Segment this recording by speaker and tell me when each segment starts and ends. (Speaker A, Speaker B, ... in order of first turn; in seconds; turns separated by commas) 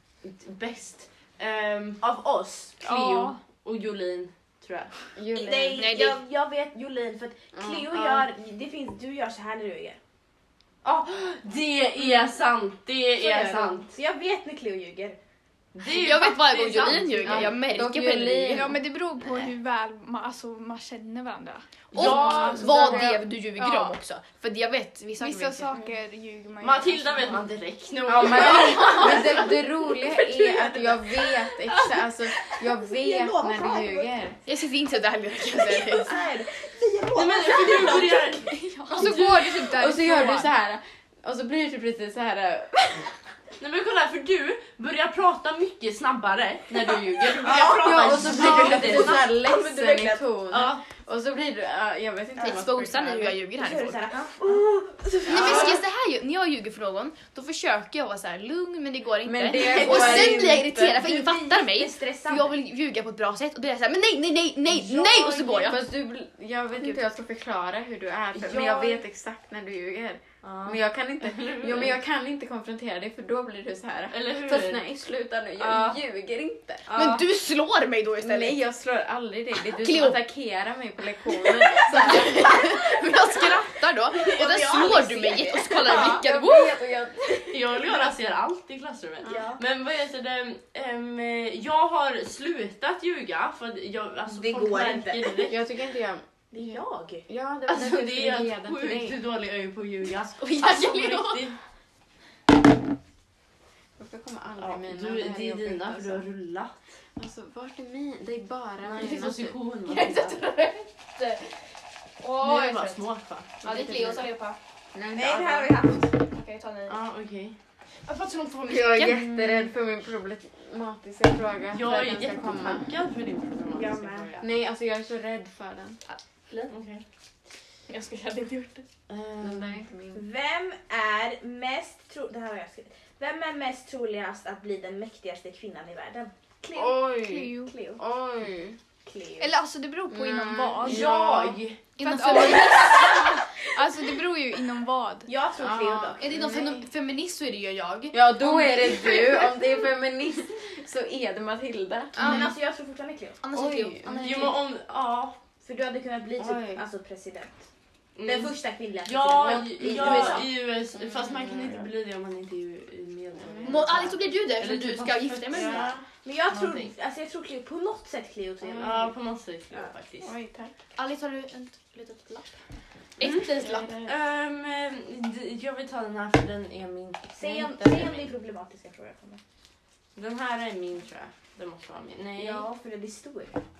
Speaker A: 0.2-4.9, Speaker B: 2.8-3.4, Speaker C: 5.2-5.8, Speaker D: 5.3-10.0, Speaker E: 5.8-6.2, Speaker C: 7.5-8.3, Speaker A: 10.8-13.9, Speaker D: 13.1-15.2, Speaker A: 15.7-17.5, Speaker E: 15.8-18.7, Speaker C: 17.2-18.8, Speaker B: 18.5-23.9, Speaker E: 21.9-25.7, Speaker A: 21.9-22.8, Speaker C: 22.0-23.2, Speaker B: 25.2-27.4, Speaker A: 26.6-31.0, Speaker C: 28.0-34.4, Speaker D: 28.2-29.0, Speaker D: 32.9-34.2, Speaker E: 34.5-36.1, Speaker D: 36.0-38.5, Speaker A: 37.1-39.5, Speaker E: 38.5-40.5, Speaker C: 39.0-43.1, Speaker A: 43.6-49.3, Speaker D: 47.4-50.2, Speaker C: 47.4-53.4, Speaker A: 50.5-50.8, Speaker D: 52.4-52.6, Speaker E: 52.4-54.0, Speaker D: 53.5-55.8, Speaker E: 55.3-65.8, Speaker A: 55.3-55.7, Speaker C: 59.2-61.1, Speaker A: 59.5-60.4, Speaker D: 59.8-60.2, Speaker D: 61.0-62.5, Speaker C: 64.9-76.8, Speaker A: 68.3-69.0, Speaker A: 70.4-72.0, Speaker A: 74.1-74.8, Speaker A: 75.6-76.0, Speaker A: 76.9-77.2, Speaker E: 76.9-78.6, Speaker C: 78.2-82.9, Speaker E: 79.5-80.2, Speaker E: 81.7-86.8, Speaker D: 84.1-86.1, Speaker C: 85.8-88.1, Speaker A: 87.5-95.6, Speaker D: 89.2-89.6, Speaker D: 94.3-95.4, Speaker C: 95.5-99.2, Speaker D: 96.5-97.2, Speaker A: 97.7-101.6, Speaker E: 100.4-101.5, Speaker C: 104.0-106.2, Speaker A: 104.6-106.8, Speaker C: 107.2-109.5, Speaker A: 108.8-110.4, Speaker E: 109.9-111.6, Speaker E: 112.2-114.6, Speaker A: 112.4-113.5, Speaker C: 113.6-114.2, Speaker C: 114.9-115.9, Speaker D: 115.1-116.1, Speaker E: 116.3-117.0, Speaker A: 116.9-117.5, Speaker E: 118.1-119.7, Speaker C: 118.7-122.9, Speaker A: 121.7-124.5, Speaker D: 123.7-124.3, Speaker C: 124.4-126.0, Speaker E: 126.1-126.7, Speaker A: 126.7-127.0, Speaker E: 127.9-128.8, Speaker A: 129.1-129.8, Speaker C: 129.4-130.2, Speaker D: 130.1-136.3, Speaker B: 136.6-137.7, Speaker C: 136.7-138.8, Speaker D: 137.7-138.0, Speaker D: 139.1-139.5, Speaker B: 139.4-141.1, Speaker C: 140.1-141.6, Speaker A: 140.8-141.8, Speaker E: 142.0-143.4, Speaker B: 142.0-145.3, Speaker D: 142.7-143.1, Speaker D: 145.2-146.2, Speaker C: 145.6-146.8, Speaker E: 146.2-149.3, Speaker C: 148.1-152.5, Speaker E: 152.1-152.5, Speaker D: 152.2-153.4, Speaker E: 153.4-154.5, Speaker C: 153.5-154.5, Speaker A: 154.2-155.4, Speaker D: 155.6-157.6, Speaker C: 156.4-156.8, Speaker A: 158.2-158.5, Speaker D: 158.2-160.4, Speaker A: 159.0-166.9, Speaker C: 159.4-161.9, Speaker C: 163.5-163.9, Speaker E: 163.6-165.9, Speaker C: 165.5-166.0, Speaker D: 166.2-169.1, Speaker C: 168.6-168.9, Speaker A: 168.8-170.3, Speaker C: 170.2-170.7, Speaker E: 171.0-172.6, Speaker E: 173.2-173.9, Speaker C: 173.2-174.1, Speaker A: 174.0-178.3, Speaker D: 177.3-179.4, Speaker A: 180.2-182.6, Speaker D: 182.3-183.6